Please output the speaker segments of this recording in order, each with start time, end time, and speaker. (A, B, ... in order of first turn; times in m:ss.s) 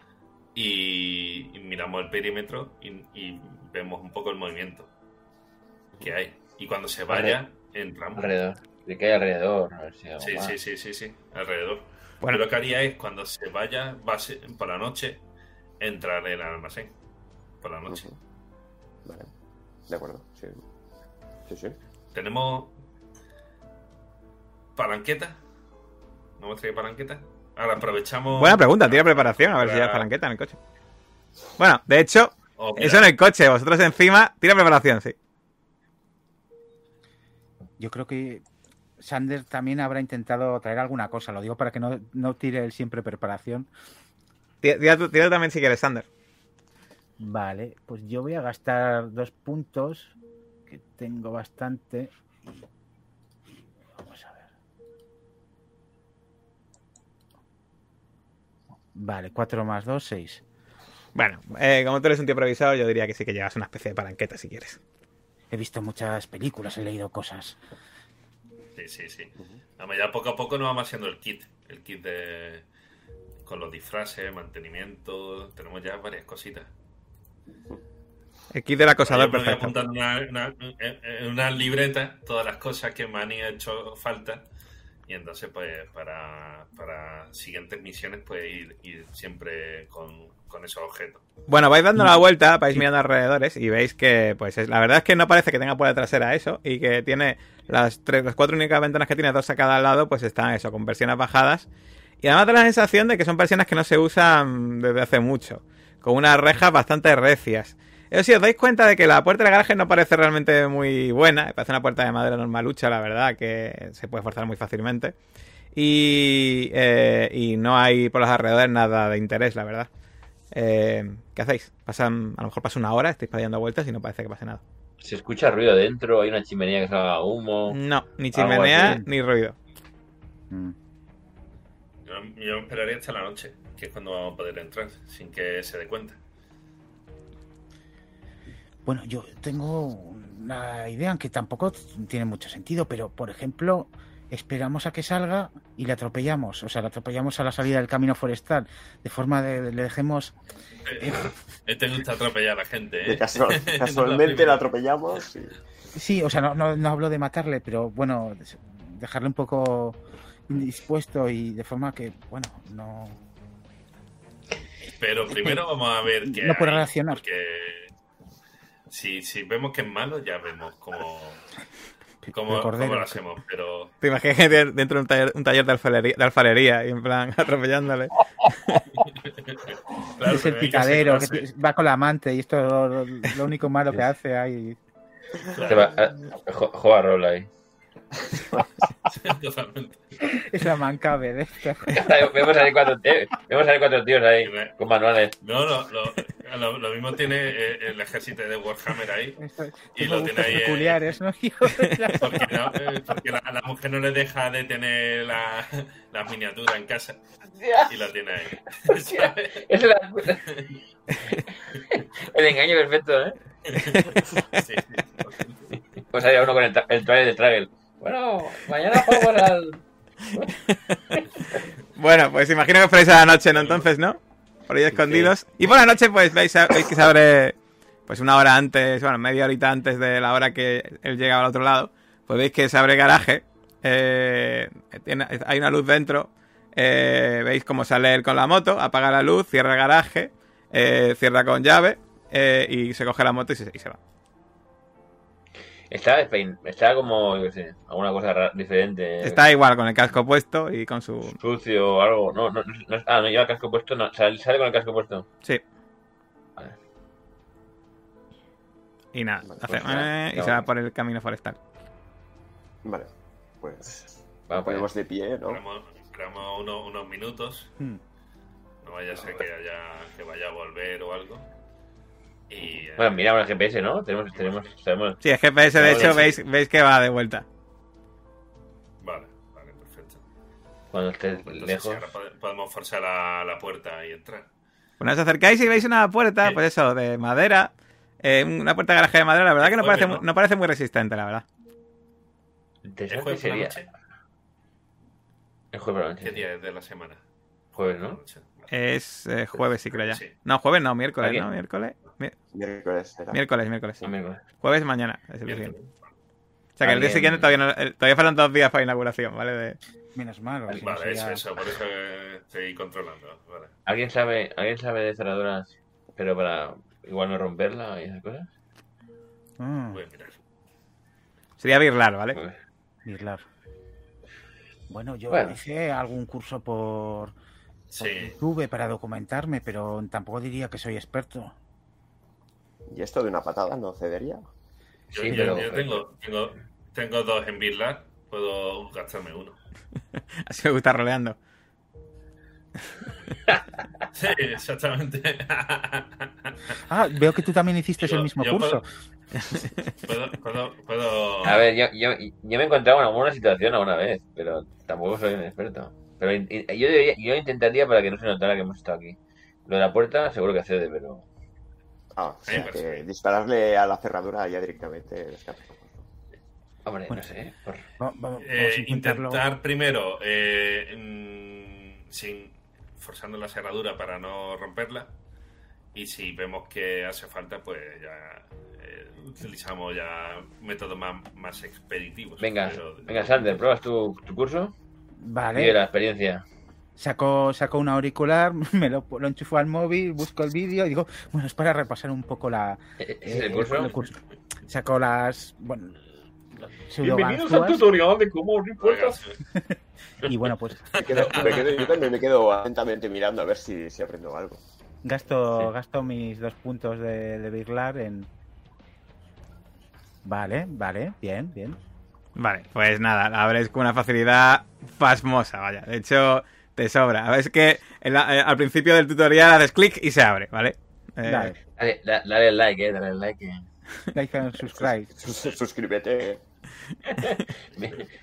0:00.5-0:04.9 A
0:06.0-0:08.3 A
0:07.1-0:07.4 B
0:08.2-0:10.6 B
0:10.2-0:15.2 A
0:15.8-0:16.9 A
0:17.6-0:18.1 A
0:17.9-0:18.2 C
0:19.9-0:20.6 C
0:21.5-0:21.8 C
0:22.1-0:22.7 A
0:24.8-0:25.4 A
0:26.4-0:30.1 A
0:28.4-0:30.6 D
0:31.6-0:35.1 D
0:32.6-0:33.1 A
0:37.8-0:38.4 E
0:39.0-0:43.7 E
0:44.6-0:46.1 D
0:47.2-0:50.1 E
0:50.7-0:52.6 E
0:53.9-0:54.5 E
0:58.9-1:00.4 E
1:01.1-1:04.8 D
1:05.5-1:07.6 E
1:08.8-1:12.6 A
1:13.4-1:16.7 A
1:18.5-1:19.8 D
1:19.0-1:24.4 A
1:25.1-1:31.2 A
1:31.5-1:41.7 D
1:42.2-1:55.1 D
1:55.7-1:59.9 D
2:00.5-2:04.6 D
2:05.0-2:07.8 B
2:07.7-2:09.6 D
2:08.3-2:09.0 B
2:10.5-2:10.7 E
2:12.0-2:16.2 A
2:18.8-2:30.3 E
2:30.8-2:34.6 A
2:31.0-2:31.2 E
2:33.0-2:35.5 C
2:35.9-2:43.2 E
2:45.0-2:47.9 A
2:45.3-2:45.6 E
2:46.2-2:47.2 E
2:48.9-2:51.4 A
2:52.2-2:53.2 E
2:52.3-2:53.9 A
2:54.0-2:58.1 D
2:59.2-3:01.4 A
3:00.2-3:04.8 E
3:05.5-3:05.9 A
3:05.6-3:07.5 B
3:09.1-3:10.4 A
3:10.3-3:12.1 E
3:11.9-3:15.4 B
3:14.4-3:14.7 A
3:15.4-3:19.4 A
3:19.4-3:22.8 E
3:19.9-3:21.0 A
3:22.2-3:27.2 A
3:27.5-3:28.0 B
3:27.9-3:29.6 A
3:28.8-3:30.5 B
3:30.5-3:30.8 A
3:31.7-3:33.4 B
3:33.7-3:35.8 A
3:33.8-3:34.6 D
3:36.1-3:40.5 B
3:39.0-3:39.3 D
3:40.7-3:41.2 D
3:42.0-3:47.6 D
3:43.5-3:43.9 A
3:44.9-3:45.3 B
3:48.1-4:04.0 D
4:05.9-4:09.4 B
4:09.2-4:11.4 D
4:11.3-4:15.2 B
4:19.1-4:21.6 D
4:19.4-4:20.0 C
4:19.7-4:20.6 B
4:22.8-4:23.1 C
4:23.6-4:25.6 C
4:24.5-4:24.9 B
4:25.4-4:27.7 A
4:28.8-4:31.5 A
4:32.5-4:33.2 A
4:33.0-4:36.4 B
4:34.3-4:34.7 A
4:35.2-4:37.4 D
4:36.0-4:36.3 A
4:39.0-4:40.2 A
4:40.9-4:42.1 B
4:41.3-4:44.5 A
4:45.0-4:51.4 D
4:49.6-4:50.2 A
4:52.8-4:53.8 B
4:53.1-4:53.9 A
4:55.7-4:56.4 B
4:56.2-4:57.2 A
4:57.7-4:58.2 B
4:58.0-4:58.7 A
4:58.7-5:02.3 D
4:59.9-5:00.3 A
5:01.2-5:01.4 B
5:02.5-5:03.4 C
5:03.3-5:05.7 D
5:04.0-5:04.4 B
5:05.5-5:05.9 A
5:06.8-5:09.8 D
5:06.8-5:07.6 B
5:10.1-5:11.4 E
5:10.8-5:13.7 A
5:13.8-5:18.5 B
5:19.6-5:20.0 E
5:19.9-5:20.4 A
5:21.6-5:22.4 D
5:23.0-5:23.4 E
5:24.9-5:27.3 E
5:25.3-5:25.6 B
5:27.9-5:28.4 A
5:28.0-5:31.5 E
5:32.9-5:34.4 C
5:35.1-5:36.0 B
5:35.1-5:39.6 A
5:35.3-5:35.7 E
5:40.4-5:41.4 D
5:44.1-5:46.8 A
5:46.8-5:48.8 E
5:48.0-5:48.8 A
5:50.0-5:51.7 A
5:51.4-6:01.2 B
6:02.2-6:06.0 C
6:02.4-6:03.0 A
6:06.8-6:07.8 B
6:08.0-6:09.4 E
6:08.4-6:15.1 A
6:15.9-6:23.6 A
6:22.4-6:24.7 B
6:25.2-6:25.8 E
6:25.6-6:26.4 B
6:27.0-6:36.0 E
6:33.0-6:34.0 B
6:36.6-6:37.8 E
6:37.0-6:39.2 B
6:38.8-6:39.4 A
6:39.5-6:41.2 E
6:40.9-6:42.1 A
6:41.0-6:44.6 C
6:45.0-6:48.3 E
6:50.2-6:51.8 E
6:52.4-7:01.5 D
7:01.2-7:01.6 E
7:01.8-7:03.7 B
7:04.1-7:05.1 E
7:04.7-7:06.4 C
7:07.0-7:08.1 B